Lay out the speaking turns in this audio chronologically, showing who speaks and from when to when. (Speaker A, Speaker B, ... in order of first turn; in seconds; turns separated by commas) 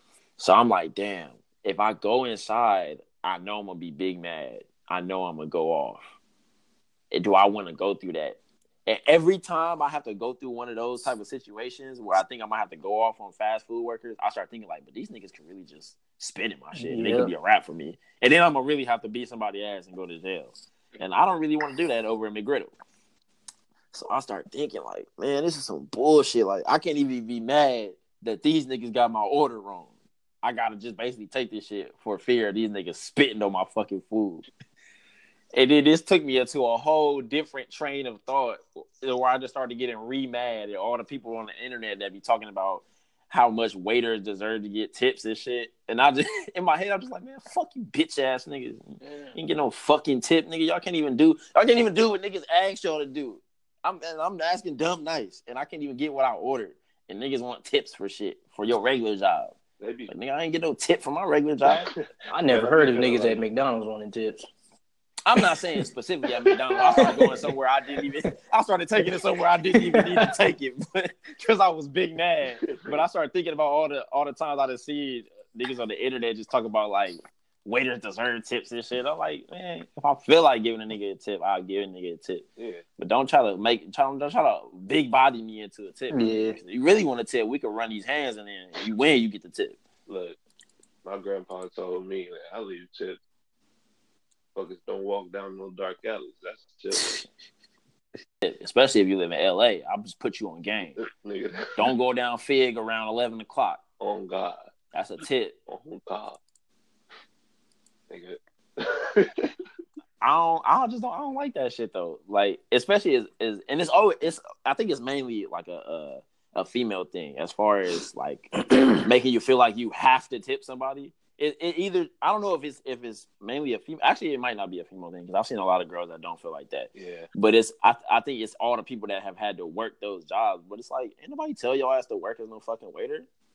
Speaker A: 0.4-6.0, Speaker A: 7.1-22.7, Speaker B: 16.8-17.3, Speaker A: 23.9-29.9, Speaker A: 30.4-34.5, Speaker A: 35.5-59.6, Speaker C: 59.8-60.1, Speaker A: 60.1-61.9, Speaker C: 61.7-63.4, Speaker B: 62.3-64.5, Speaker A: 65.3-82.5, Speaker C: 66.8-67.2, Speaker B: 67.0-67.5, Speaker B: 69.7-70.3, Speaker C: 72.6-73.0, Speaker C: 82.6-82.8, Speaker A: 83.0-89.8, Speaker B: 86.1-86.6, Speaker C: 90.1-90.4, Speaker C: 91.0-93.2, Speaker C: 94.5-97.2, Speaker A: 98.4-101.0, Speaker C: 101.0-101.9, Speaker A: 101.8-103.8, Speaker C: 104.0-104.7, Speaker A: 104.9-105.6, Speaker C: 105.7-106.4, Speaker C: 108.1-109.5, Speaker A: 110.2-133.3, Speaker C: 127.0-127.3